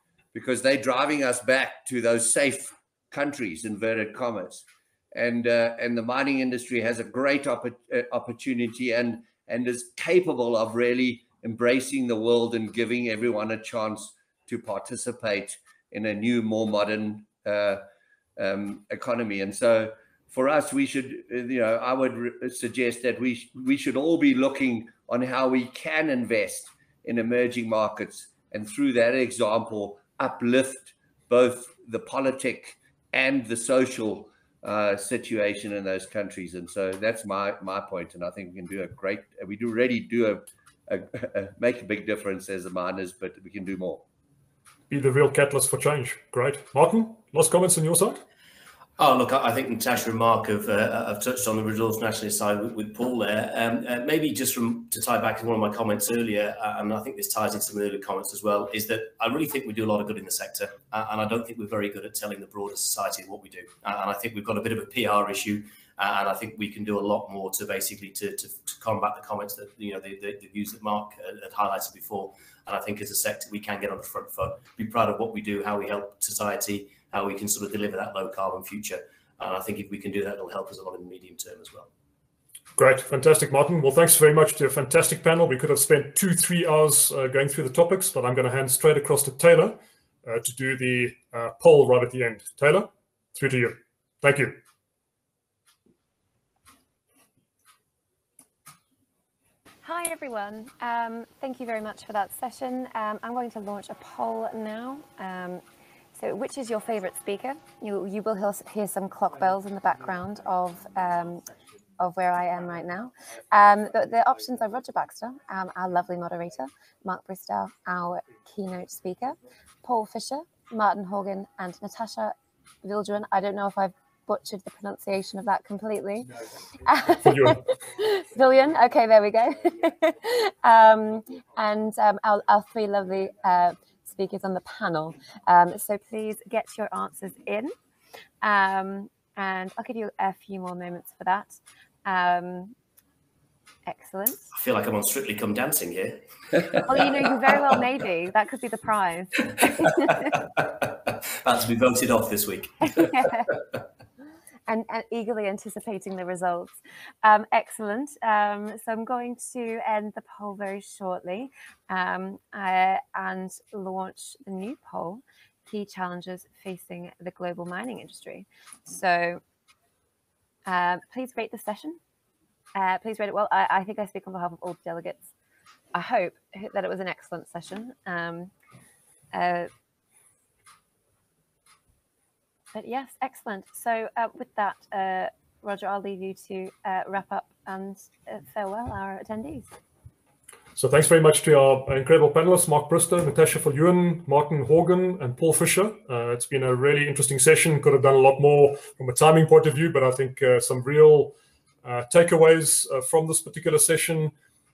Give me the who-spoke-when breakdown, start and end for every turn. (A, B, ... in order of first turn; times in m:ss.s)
0:00.3-0:17.8 A
0:18.4-0:44.0 A
0:44.9-0:48.2 B
0:49.0-1:21.9 C
1:22.8-1:34.6 B
1:39.8-1:45.6 D
1:46.2-1:51.4 D
1:52.0-2:06.3 D
2:06.8-2:17.7 D
2:07.2-2:07.6 B
2:18.4-2:22.7 D
2:23.9-2:24.5 D
2:24.6-2:27.8 C
2:26.9-2:30.3 D
2:29.6-2:33.0 C
2:32.9-2:33.5 D
2:34.7-2:49.4 D
2:50.7-2:52.0 D
2:52.8-2:55.3 D
2:55.9-2:58.5 D
2:59.3-2:59.7 D
3:02.7-3:09.7 D
3:10.8-3:24.3 B